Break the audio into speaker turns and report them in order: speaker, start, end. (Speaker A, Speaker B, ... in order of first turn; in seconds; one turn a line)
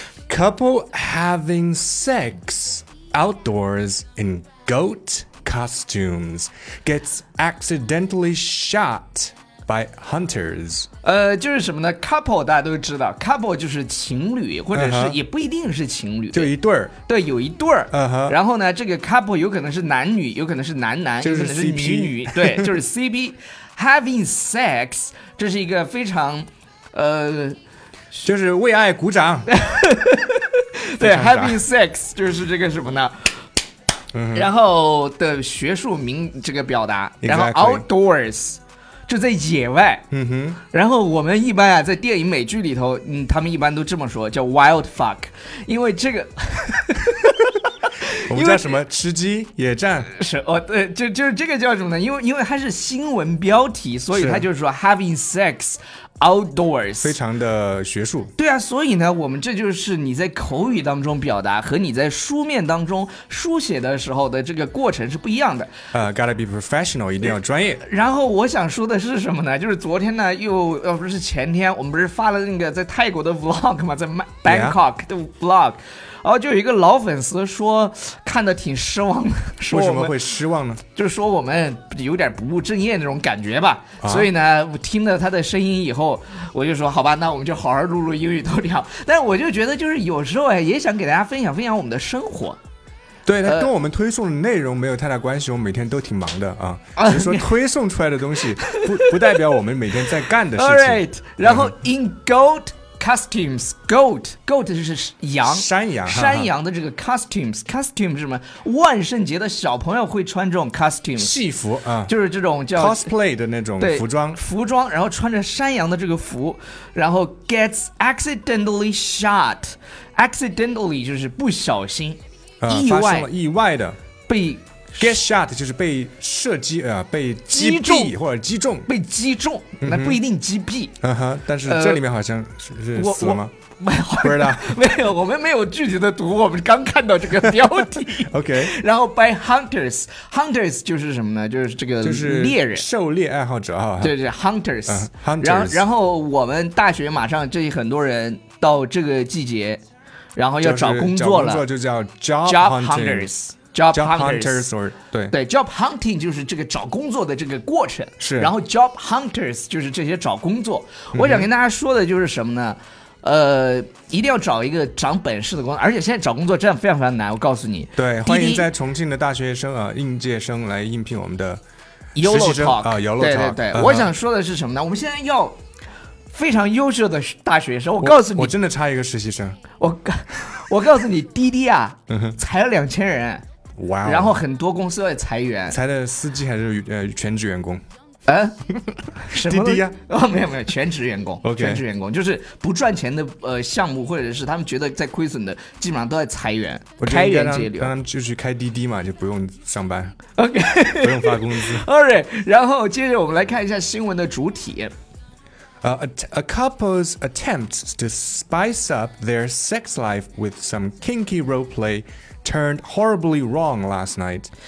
Speaker A: 0.3-10.9
Speaker B: 11.0-16.5
Speaker A: 14.7-15.2
Speaker A: 16.3-16.9
Speaker B: 17.1-27.6
Speaker A: 17.9-18.4
Speaker A: 21.2-22.8
Speaker A: 28.2-29.5
Speaker B: 29.5-33.4
Speaker A: 31.0-31.6
Speaker A: 34.1-34.5
Speaker B: 34.3-40.1
Speaker A: 37.2-37.8
Speaker A: 40.1-40.6
Speaker B: 40.7-48.8
Speaker A: 48.3-50.1
Speaker B: 50.1-57.2
Speaker A: 54.1-54.5
Speaker A: 57.0-58.3
Speaker B: 58.4-65.7
Speaker A: 65.9-67.8
Speaker B: 67.8-80.2
Speaker A: 74.5-74.8
Speaker A: 79.7-80.8
Speaker B: 80.9-92.6
Speaker A: 84.0-84.3
Speaker A: 93.2-101.7
Speaker B: 93.4-93.7
Speaker B: 97.0-97.5
Speaker B: 98.6-99.4
Speaker B: 100.5-111.3
Speaker A: 105.4-106.5
Speaker A: 111.2-112.1
Speaker B: 112.0-113.1
Speaker A: 112.7-114.4
Speaker B: 113.8-123.3
Speaker A: 122.6-124.0
Speaker B: 124.3-125.1
Speaker A: 125.0-128.9
Speaker B: 127.5-128.1
Speaker B: 128.8-131.0
Speaker A: 129.8-130.2
Speaker A: 131.0-133.5
Speaker B: 131.6-132.0
Speaker B: 132.9-142.8
Speaker A: 134.2-134.9
Speaker A: 137.6-138.7
Speaker A: 142.0-144.2
Speaker B: 144.0-149.8
Speaker A: 144.9-145.8
Speaker B: 150.3-151.6
Speaker A: 150.6-153.3
Speaker B: 152.4-154.7
Speaker A: 153.9-155.3
Speaker B: 155.3-168.7
Speaker A: 158.2-158.5
Speaker A: 161.1-161.5
Speaker A: 168.0-171.6
Speaker B: 172.1-175.6
Speaker A: 172.2-174.1
Speaker B: 176.3-178.5
Speaker A: 178.0-179.6
Speaker B: 179.7-183.4
Speaker A: 182.1-182.4
Speaker A: 183.8-184.4
Speaker B: 184.0-185.8
Speaker A: 185.7-187.8
Speaker B: 188.2-188.6
Speaker A: 188.9-189.9
Speaker B: 189.2-197.9
Speaker A: 191.4-191.8
Speaker A: 197.0-200.2
Speaker B: 200.3-204.9
Speaker A: 201.0-201.8
Speaker A: 205.8-214.5